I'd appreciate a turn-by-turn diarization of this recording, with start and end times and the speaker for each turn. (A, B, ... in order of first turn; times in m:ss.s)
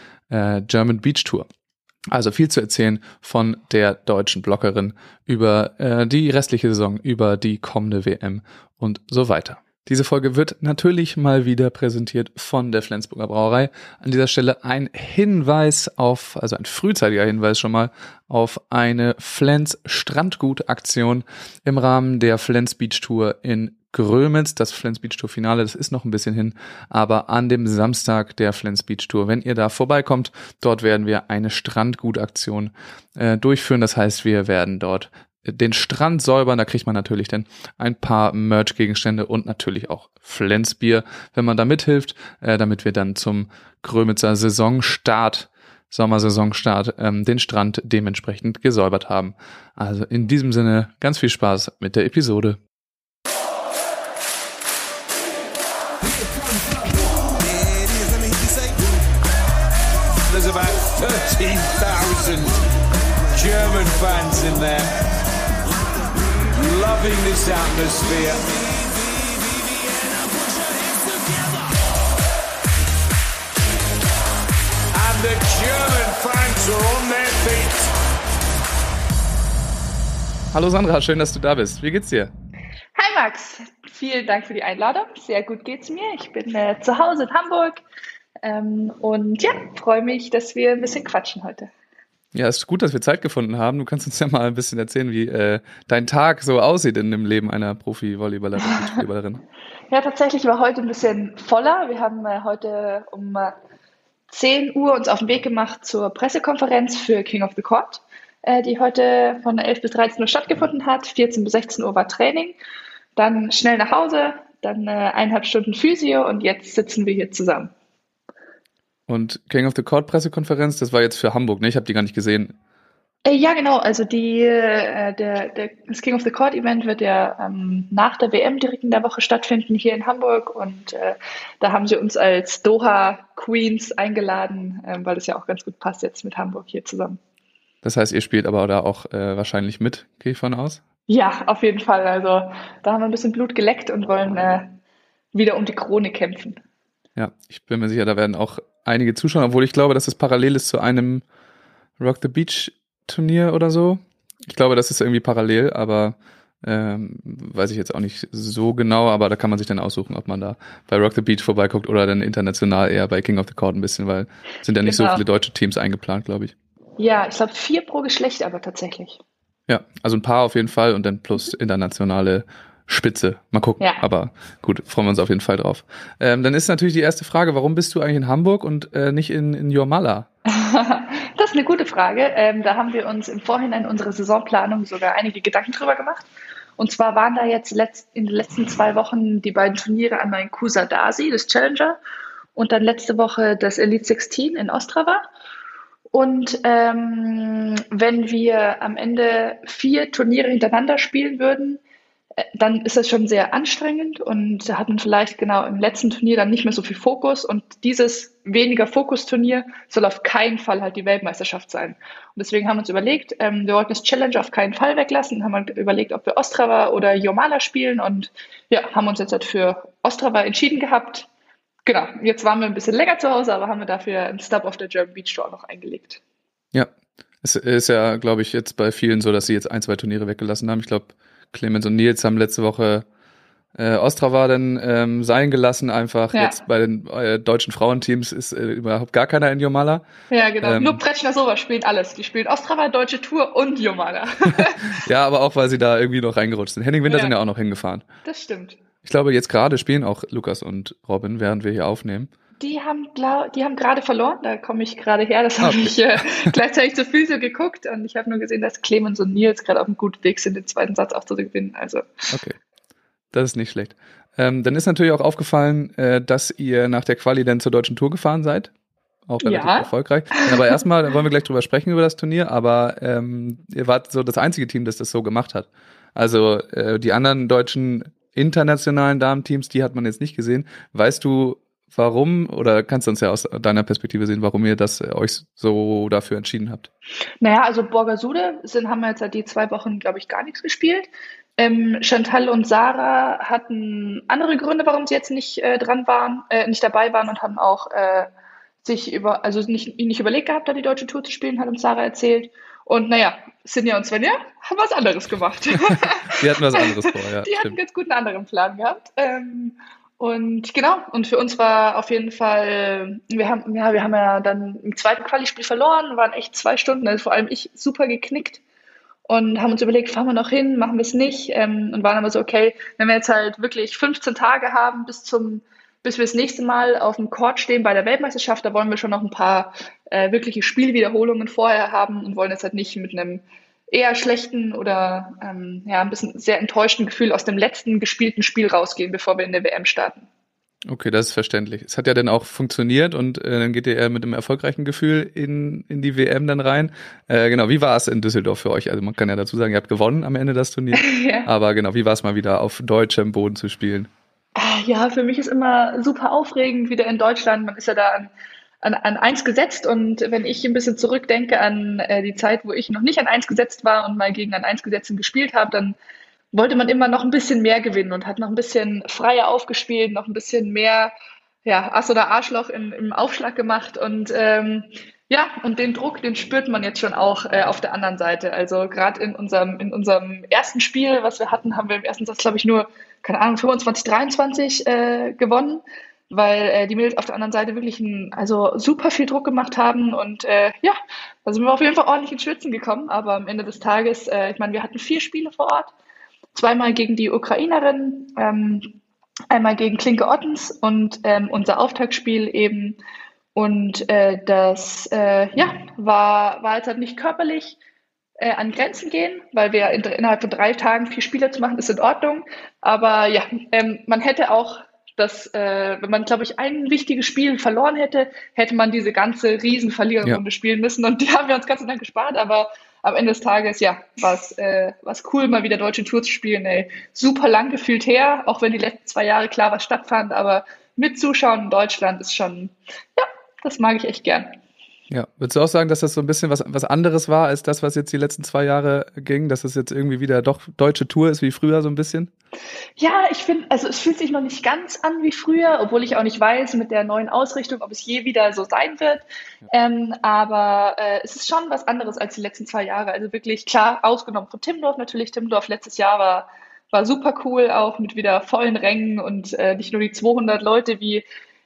0:00.3-0:01.5 A
0:02.1-0:52.6 A
1:00.3-1:02.6 B
1:03.3-1:04.9 B
1:06.6-1:08.7 B
1:14.9-1:17.9 B
1:20.5-1:22.3 A
1:23.0-1:27.8 C
1:28.4-1:31.7 C
1:32.3-1:39.4 A
1:38.8-1:39.0 C
1:39.9-1:43.5 C
1:44.3-1:52.6 C
1:53.2-1:57.7 C
1:59.1-2:02.6 A
2:03.2-2:17.2 C
2:17.8-2:20.8 A
2:21.1-2:24.8 C
2:25.3-2:26.6 C
2:27.2-2:31.2 A
2:32.0-2:46.5 A
2:44.8-2:45.2 C
2:47.0-2:49.2 C
2:49.7-3:00.3 A
3:00.5-3:06.3 C
3:06.8-3:12.0 C
3:12.6-3:15.3 C
3:16.1-3:21.8 C
3:22.4-3:41.3 C
3:41.9-3:46.2 C
3:47.4-3:53.0 A
3:53.8-4:00.1 A
3:56.3-3:56.6 C
4:00.3-4:04.9 C
4:00.6-4:01.0 A
4:04.6-4:08.0 A
4:07.1-4:07.3 C
4:08.2-4:08.8 C
4:09.0-4:12.3 A
4:12.6-4:22.1 C
4:15.6-4:16.5 A
4:22.3-4:22.6 A
4:23.3-4:28.7 A
4:29.3-4:46.9 A
4:29.4-4:30.8 C
4:47.4-4:58.3 C
4:58.8-5:18.6 C
5:05.8-5:07.8 A
5:19.3-5:40.3 C
5:40.9-5:54.1 A
5:51.0-5:51.5 C
5:54.6-6:06.0 C
6:06.5-6:11.1 C
6:11.6-6:35.9 C
6:36.5-6:39.0 C
6:39.5-6:43.0 C
6:43.6-6:47.8 C
6:48.4-7:14.5 C
7:15.1-7:22.3 A
7:23.0-7:41.2 C